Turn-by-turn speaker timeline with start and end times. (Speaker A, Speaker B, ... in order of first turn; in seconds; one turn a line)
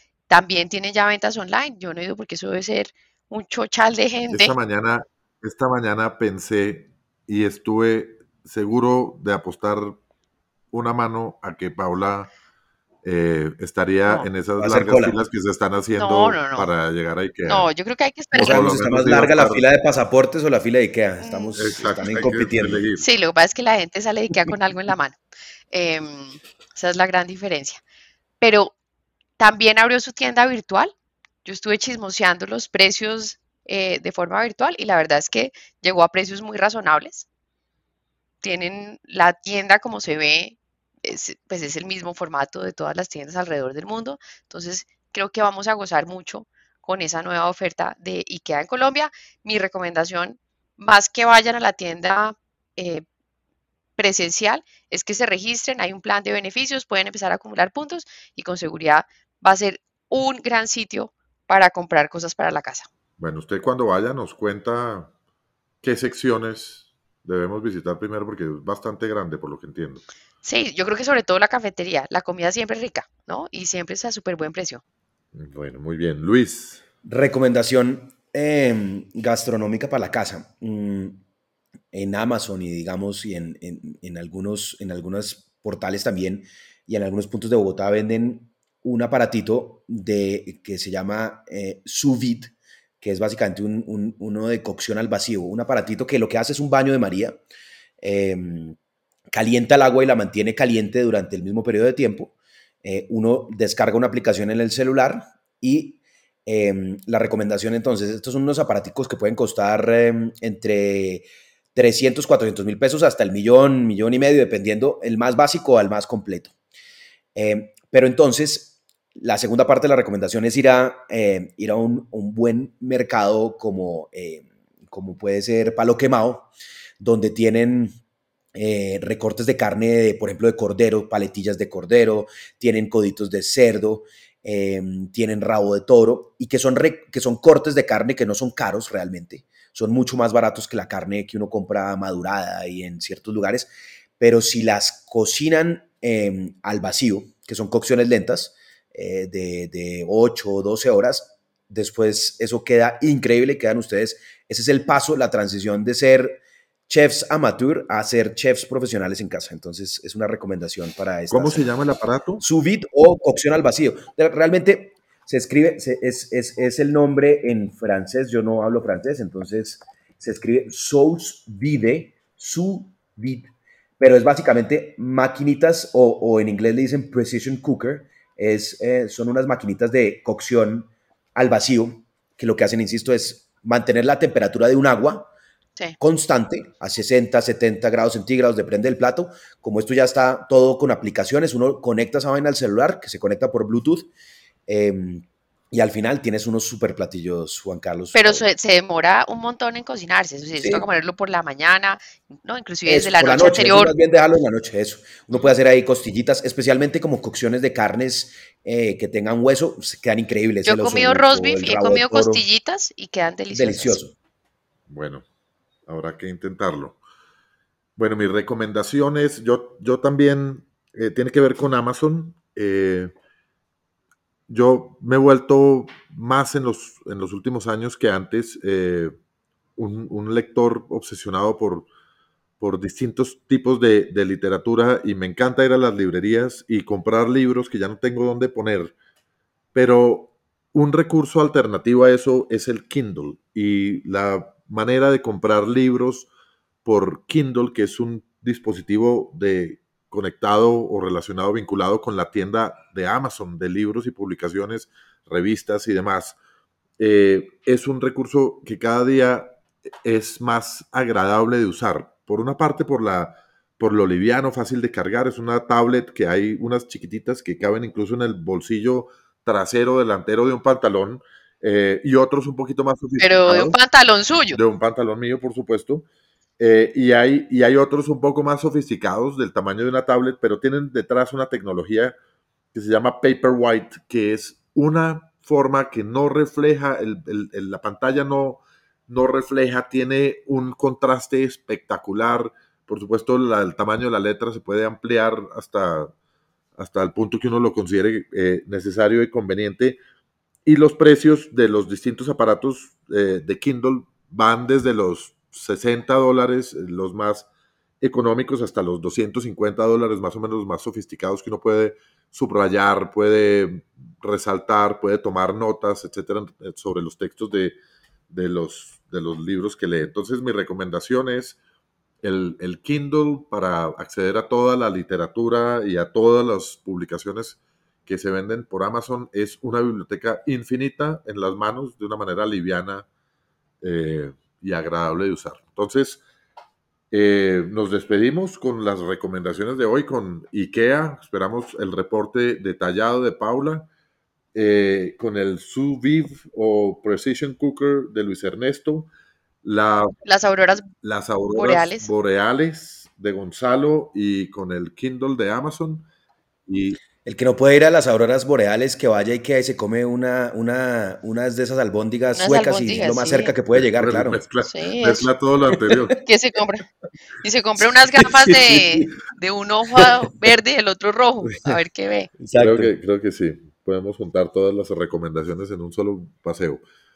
Speaker A: 0.3-4.5
Speaker B: 4.3-10.0
Speaker B: 10.7-12.3
Speaker B: 13.0-17.7
Speaker C: 14.6-15.2
Speaker A: 16.0-16.7
Speaker A: 17.4-18.7
Speaker B: 18.3-19.7
Speaker C: 18.3-22.9
Speaker A: 21.2-21.6
Speaker B: 21.6-23.0
Speaker A: 23.0-25.2
Speaker A: 25.7-27.8
Speaker A: 28.4-28.7
Speaker A: 29.4-30.9
Speaker A: 31.4-37.3
Speaker A: 38.4-53.0
Speaker A: 54.0-62.9
Speaker B: 63.2-65.1
Speaker B: 65.8-70.0
Speaker A: 70.4-74.8
Speaker B: 75.3-76.8
Speaker C: 77.0-81.2
Speaker C: 81.9-97.4
Speaker C: 98.0-98.8
Speaker C: 99.3-116.5
Speaker C: 117.3-128.0
Speaker C: 128.5-161.7
Speaker B: 161.3-162.4
Speaker C: 162.4-185.3
Speaker C: 186.0-194.1
Speaker C: 194.7-198.4
Speaker A: 198.1-203.9
Speaker C: 200.6-200.8
Speaker C: 202.8-212.4
Speaker A: 210.6-214.0
Speaker C: 213.5-214.1
Speaker B: 214.9-215.2
Speaker B: 215.9-217.0
Speaker B: 218.0-223.1
Speaker B: 224.5-229.2
Speaker B: 229.8-231.9
Speaker B: 232.6-238.9
Speaker B: 239.7-246.3
Speaker B: 246.8-256.4
Speaker B: 257.0-273.8
Speaker A: 273.2-274.6
Speaker B: 274.5-276.1
Speaker B: 276.6-282.1
Speaker B: 282.7-296.1
Speaker B: 296.8-300.0
Speaker B: 300.6-307.5
Speaker B: 308.0-317.8
Speaker B: 318.3-321.6
Speaker B: 322.2-333.1
Speaker B: 333.8-336.2
Speaker B: 337.1-343.9
Speaker B: 344.5-349.1
Speaker B: 349.6-350.1
Speaker A: 350.2-350.9
Speaker B: 351.0-356.1
Speaker A: 351.5-352.1
Speaker B: 356.7-357.0
Speaker C: 357.2-364.4
Speaker A: 362.3-363.5
Speaker B: 363.7-366.2
Speaker A: 364.6-365.3
Speaker A: 366.2-366.8
Speaker A: 367.4-372.3
Speaker C: 372.4-372.9
Speaker B: 372.5-376.8